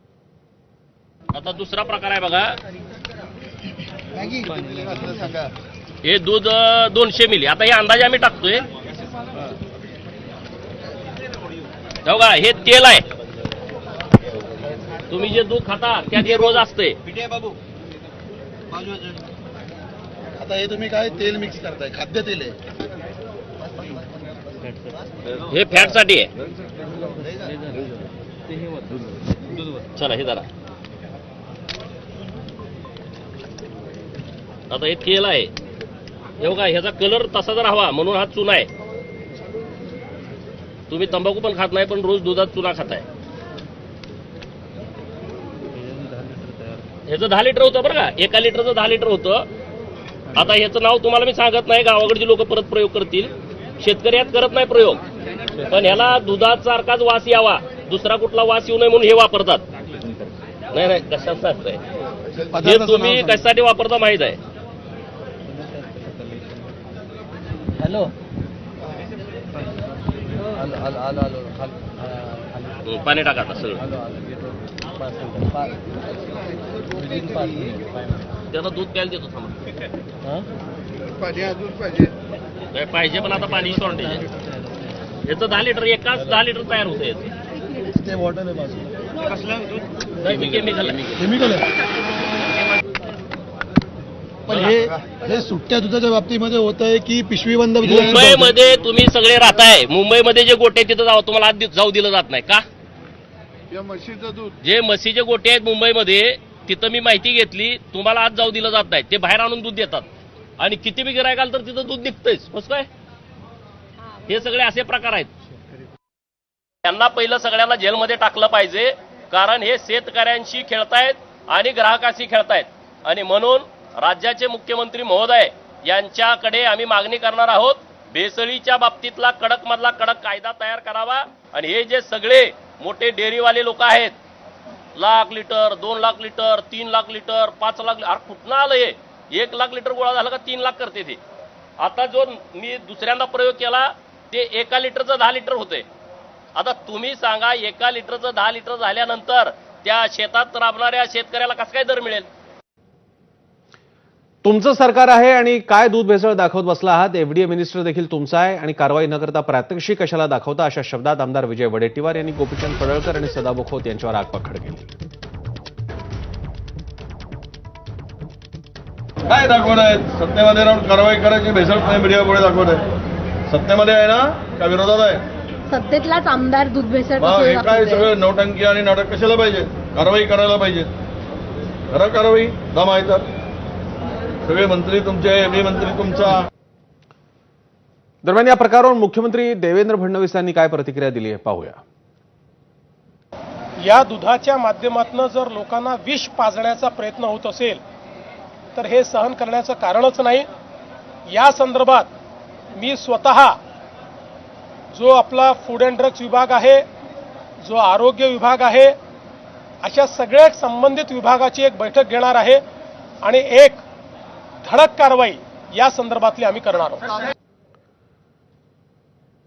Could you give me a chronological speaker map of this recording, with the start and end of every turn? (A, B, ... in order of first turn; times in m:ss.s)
0:01.3-0:02.6 A
0:06.0-0:08.6 A
0:12.0-0:13.0 A
0:15.1-0:17.0 A
0:20.4-0:22.6 B
0:25.5-0:26.3 A
0:30.0-0:30.5 A
0:34.7-0:35.5 A
0:36.4-0:38.7 A
0:40.9-0:43.0 A
0:45.8-0:46.8 C
0:47.1-0:49.5 A
0:50.3-0:55.0 A
0:55.7-0:59.6 A
1:00.7-1:01.8 A
1:02.6-1:04.4 A
1:05.5-1:06.5 C
1:07.8-1:08.1 C
1:10.6-1:12.8 C
1:12.8-1:13.8 A
1:13.8-1:15.7 C
1:17.0-1:17.9 C
1:18.5-1:19.6 A
1:22.7-1:24.3 A
1:25.2-1:27.3 A
1:27.9-1:28.9 B
1:30.2-1:31.5 A
1:31.2-1:31.6 B
1:34.5-1:38.2 B
1:37.8-1:42.6 A
1:44.6-1:50.1 A
1:50.6-1:52.9 A
1:54.3-1:55.3 A
1:56.8-2:14.1 A
2:15.0-2:21.2 A
2:21.8-2:25.8 A
2:26.5-2:32.3 A
2:34.4-2:44.9 D
2:49.3-2:52.8 E
2:53.5-2:55.2 E
2:55.7-2:58.1 F
2:57.2-3:00.9 E
3:01.9-3:03.3 E
3:04.5-3:06.5 E
3:08.2-3:11.8 D
3:13.8-3:17.8 G
3:18.7-3:20.5 G
3:21.3-3:22.1 G
3:22.8-3:23.6 G
3:24.9-3:26.8 G
3:27.6-3:28.9 G
3:29.8-3:32.6 G
3:33.2-3:33.8 G
3:34.6-3:37.0 G